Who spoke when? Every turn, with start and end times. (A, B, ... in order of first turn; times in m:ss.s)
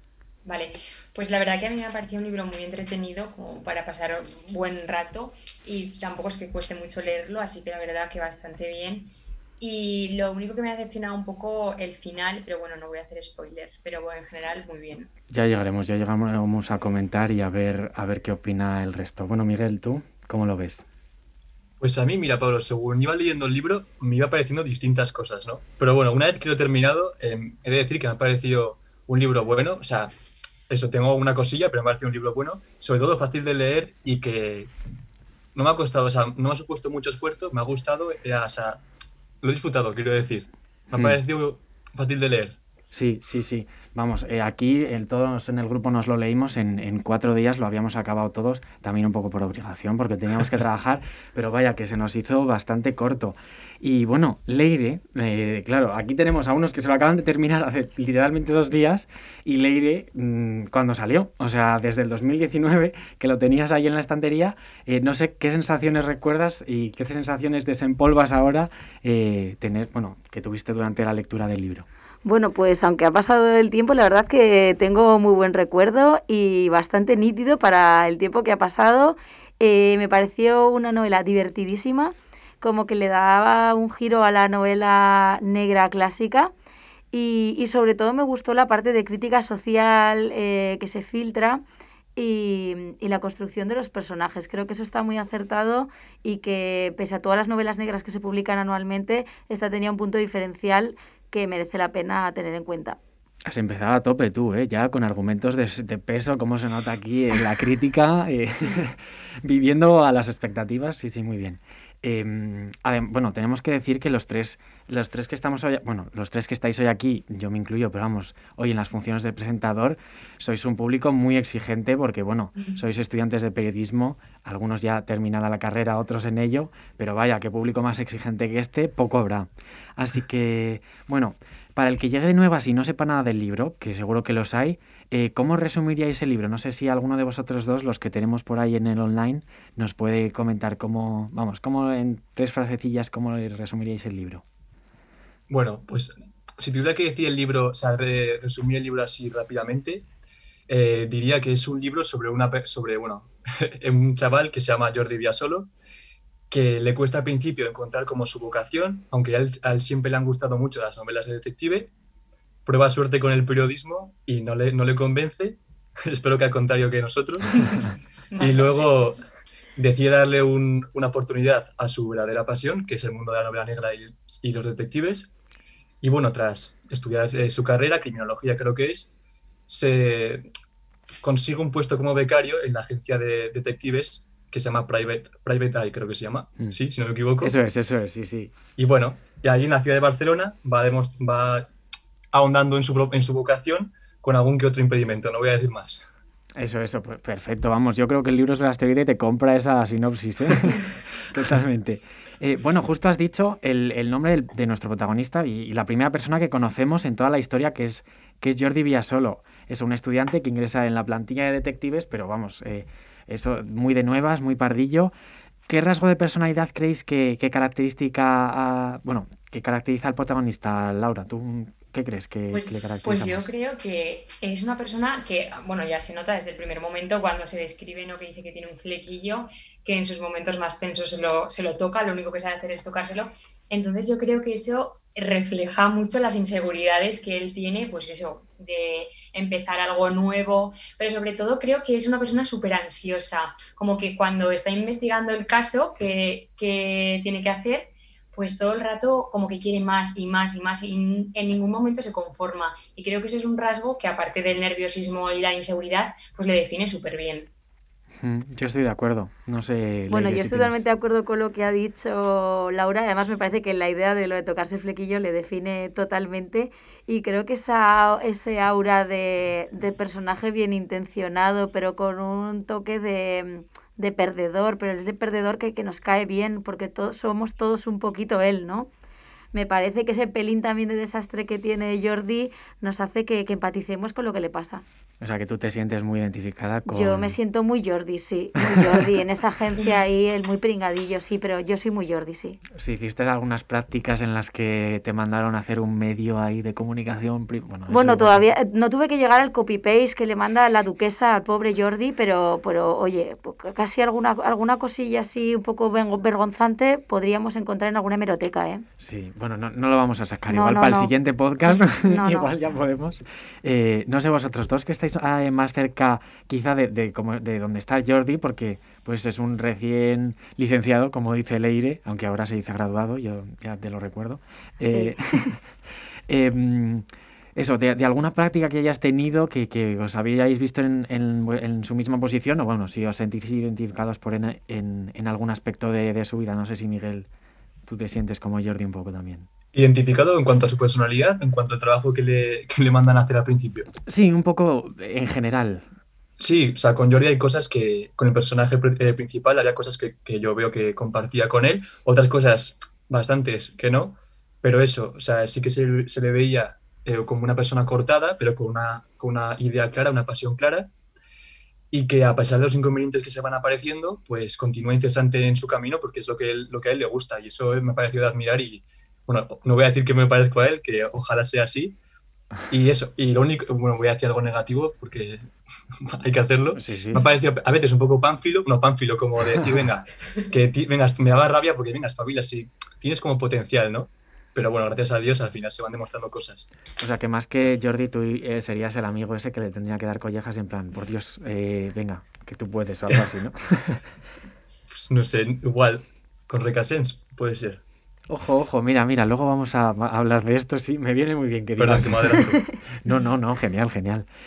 0:00.4-0:15.1 A
0:15.3-0:20.8 B
0:21.8-0:30.1 C
0:30.7-0:34.7 C
0:35.5-0:38.8 C
0:39.4-0:42.6 C
0:40.9-0:41.2 B
0:42.9-1:11.9 B
1:12.2-1:26.5 D
1:27.1-1:31.6 D
1:32.2-1:43.0 D
1:43.4-2:24.4 B
2:25.5-2:30.0 C
2:30.7-2:35.7 C
2:36.5-2:41.9 C
2:42.6-2:49.2 C
2:48.3-2:48.9 A
2:49.8-2:55.3 C
2:56.0-2:59.1 C
2:59.7-3:00.4 C
3:01.2-3:07.6 C
3:07.4-3:08.5 B
3:08.8-3:11.7 C
3:12.3-3:16.0 C
3:16.6-3:35.1 B
3:35.7-3:43.5 B
3:42.5-4:17.5 A
4:18.2-4:20.8 B
4:20.1-4:38.9 D
4:39.5-4:44.8 D
4:45.2-4:47.4 B
4:46.9-4:52.6 D
4:48.6-4:49.1 B
4:52.7-4:58.4 B
4:57.9-5:08.8 D
5:09.0-5:25.7 B
5:10.5-5:11.1 D
5:11.8-5:12.5 D
5:24.8-5:25.6 D
5:26.3-5:37.3 B
5:37.8-5:39.5 B
5:39.7-5:43.9 C
5:44.0-5:45.8 B
5:46.4-6:00.9 C
6:01.9-6:12.0 C
6:12.7-6:26.7 C
6:16.7-6:17.2 B
6:27.0-6:34.0 B
6:34.9-6:37.8 C
6:38.3-6:44.2 B
6:41.8-6:42.6 C